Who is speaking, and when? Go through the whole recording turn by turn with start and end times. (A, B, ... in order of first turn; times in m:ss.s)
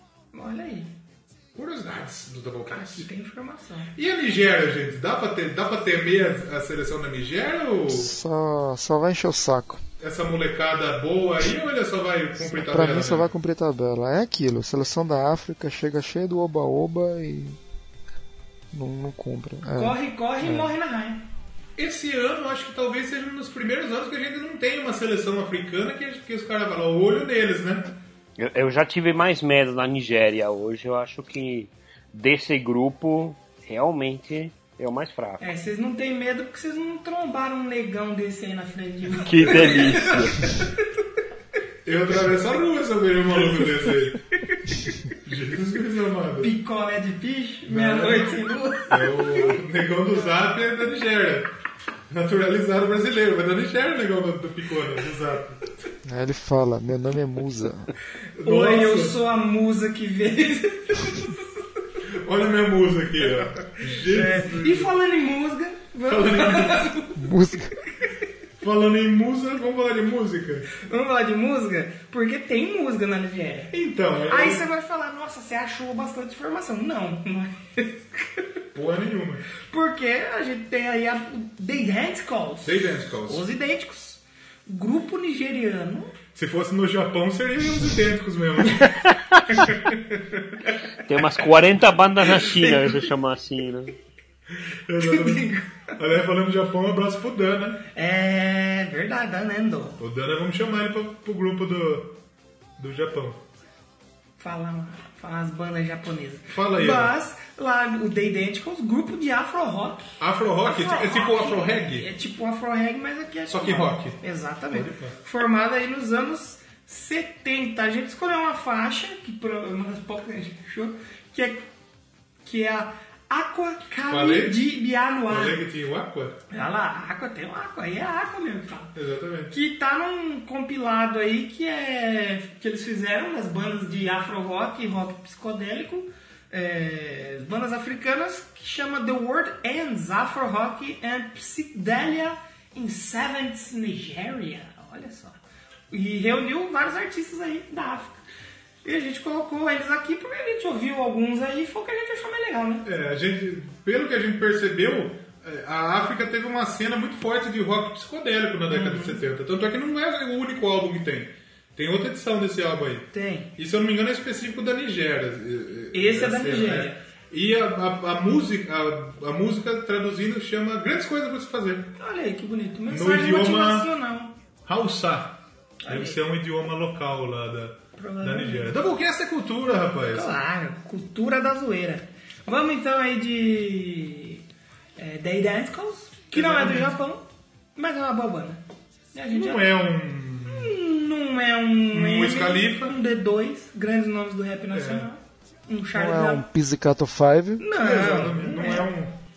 0:00.3-0:00.9 A
0:01.6-0:03.1 B
0:02.7-0:03.9 A
0:04.0-0:08.1 B
0:07.9-0:09.8 C
0:10.0-0:13.3 B
0:12.4-0:17.6 C
0:18.7-0:20.7 C
0:19.7-0:21.2 A
0:21.8-0:27.9 B
0:28.4-0:35.5 D
0:35.4-0:40.7 A
0:39.2-0:40.5 D
0:41.8-0:44.2 B
0:45.2-0:46.5 B
0:46.4-0:49.6 A
0:47.7-0:51.5 B
0:52.1-0:55.7 B
0:56.0-0:57.9 C
0:58.4-1:01.4 A
0:58.4-0:59.2 B
1:02.2-1:04.9 B
1:04.0-1:07.2 A
1:06.0-1:06.9 B
1:07.2-1:07.7 C
1:08.6-1:10.7 B
1:10.8-1:13.7 A
1:13.7-1:14.6 B
1:14.3-1:18.4 A
1:18.7-1:19.4 B
1:19.7-1:26.2 A
1:22.6-1:23.5 B
1:26.4-1:29.0 B
1:29.6-1:30.0 A
1:31.1-1:33.9 D
1:32.4-1:32.9 A
1:34.5-1:37.8 B
1:35.0-1:35.8 A
1:37.9-1:40.0 A
1:40.0-1:42.2 B
1:42.8-1:43.4 B
1:44.4-1:50.0 A
1:46.5-1:47.2 B
1:50.2-1:52.1 B
1:50.6-2:01.6 A
1:53.5-1:54.2 B
1:54.7-1:55.2 B
2:02.4-2:05.6 A
2:04.1-2:04.6 B
2:05.3-2:06.4 B
2:06.5-2:08.9 A
2:09.0-2:09.6 B
2:09.5-2:25.4 A
2:25.9-2:28.2 A
2:28.8-2:32.8 A
2:32.8-2:51.9 B
2:38.7-2:39.2 A
2:43.1-2:43.5 A
2:45.9-2:47.0 A
2:52.0-2:54.3 A
2:52.9-2:53.9 B
2:54.7-3:00.3 B
2:55.9-2:56.2 A
2:58.0-2:58.7 A
3:00.1-3:04.4 A
3:05.0-3:07.2 A
3:06.3-3:07.0 B
3:07.8-3:08.6 A
3:09.1-3:09.6 A
3:09.3-3:10.7 B
3:10.4-3:16.4 A
3:11.9-3:13.0 B
3:14.7-3:15.1 B
3:15.9-3:17.7 C
3:17.6-3:18.9 A
3:17.8-3:19.2 B